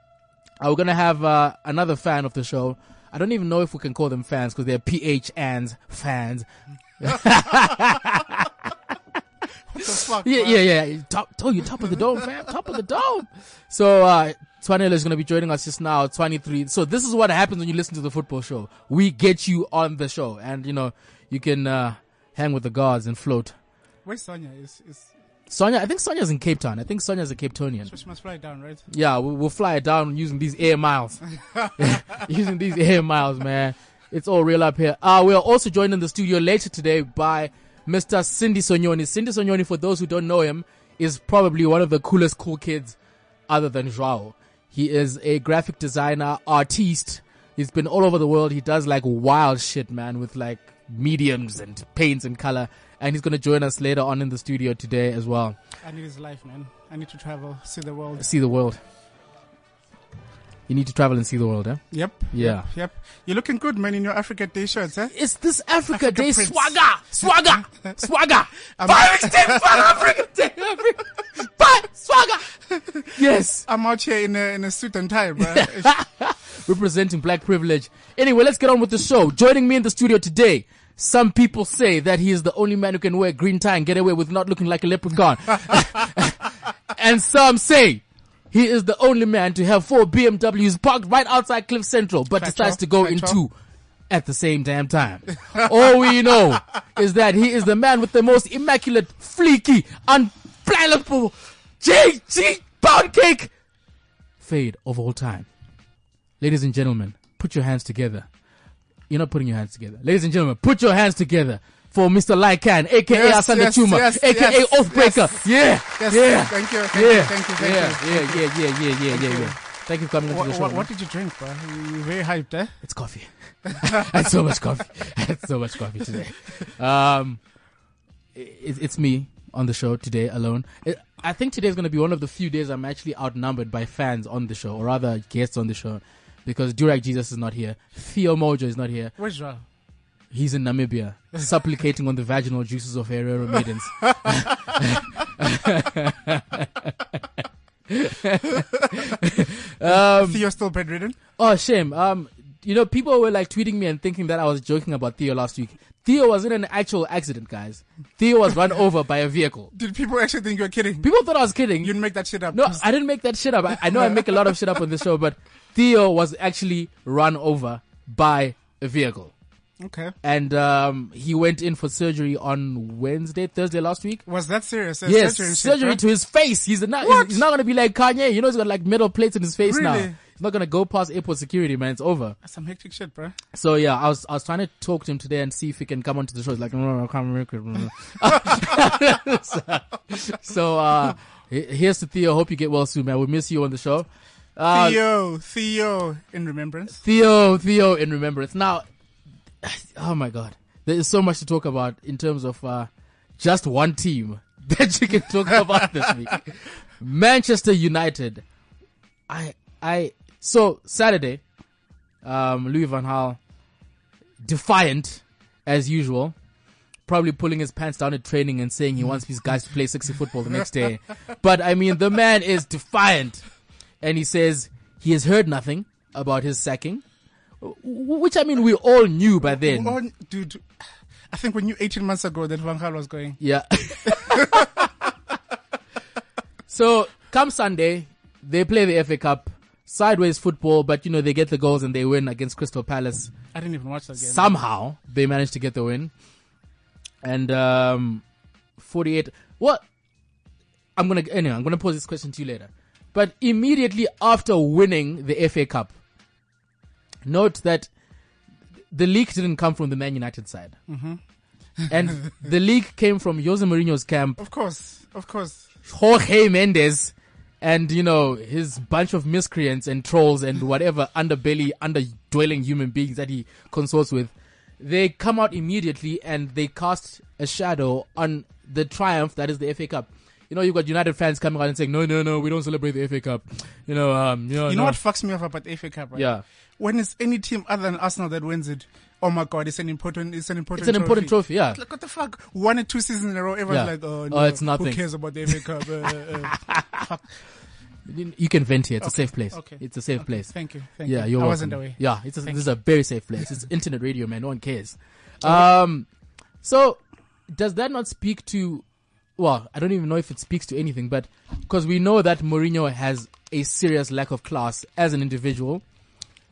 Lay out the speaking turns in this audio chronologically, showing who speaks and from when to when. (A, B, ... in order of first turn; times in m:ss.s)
0:00.6-0:06.4 A
0:07.0-0:08.7 A
0:09.7-0:10.6 B
0:09.8-0:23.5 A
0:24.0-0:25.1 B
0:25.5-0:27.9 A
0:27.8-0:28.8 B
0:28.9-0:31.2 A
0:31.4-0:31.9 B
0:31.8-0:43.0 A
0:43.5-0:55.6 A
0:55.8-0:58.2 B
0:58.2-0:58.8 A
1:00.7-1:02.6 A
1:01.9-1:05.1 B
1:05.1-1:12.5 A
1:05.9-1:07.7 B
1:08.8-1:10.0 B
1:12.7-1:15.9 B
1:13.1-1:13.7 A
1:15.5-1:33.5 A
1:32.4-1:33.4 B
1:34.1-1:43.5 A
1:44.4-1:45.5 A
1:46.4-1:48.2 A
1:49.1-2:00.8 A
1:53.1-1:58.5 B
1:59.0-1:59.6 B
2:00.2-2:02.8 B
2:02.8-2:07.4 A
2:08.3-2:19.1 A
2:19.2-2:19.6 B
2:20.3-2:27.2 A
2:27.9-2:30.4 A
2:29.8-2:31.2 B
2:31.4-2:39.7 A
2:39.7-2:41.1 B
2:41.0-2:41.9 A
2:41.8-2:42.8 B
2:42.5-2:49.3 A
2:43.9-2:44.3 B
2:49.8-2:50.1 B
2:50.2-2:54.2 A
2:54.2-2:56.0 B
2:55.0-3:02.4 A
2:57.0-2:57.4 B
2:59.6-3:00.2 B
3:02.4-3:03.4 B
3:03.5-3:15.0 A
3:14.7-3:17.0 B
3:17.0-3:18.8 A
3:19.6-3:28.4 A
3:29.3-3:31.4 A
3:32.2-3:33.4 A
3:34.4-3:36.3 A
3:37.1-3:43.4 A
3:44.0-3:47.0 A
3:47.6-3:49.9 A
3:49.4-3:50.6 B
3:51.3-3:53.4 B
3:53.4-3:54.8 A
3:54.1-3:54.6 B
3:56.7-4:03.3 A
4:03.5-4:04.6 B
4:04.2-4:06.1 A
4:07.2-4:08.2 A
4:08.8-4:09.8 A
4:11.0-4:15.9 A
4:17.2-4:17.9 A
4:18.9-4:20.8 A
4:20.9-4:21.2 B
4:21.8-4:22.1 B
4:21.9-4:24.4 A
4:24.4-4:25.7 B
4:25.9-4:45.0 A
4:44.6-4:57.2 B
4:46.1-4:46.4 A
4:50.8-4:51.8 A
4:53.7-4:55.0 A
4:56.6-4:56.8 A
4:58.1-5:00.5 A
4:59.0-5:02.6 B
5:01.0-5:06.1 A
5:06.6-5:08.8 A
5:09.4-5:15.8 A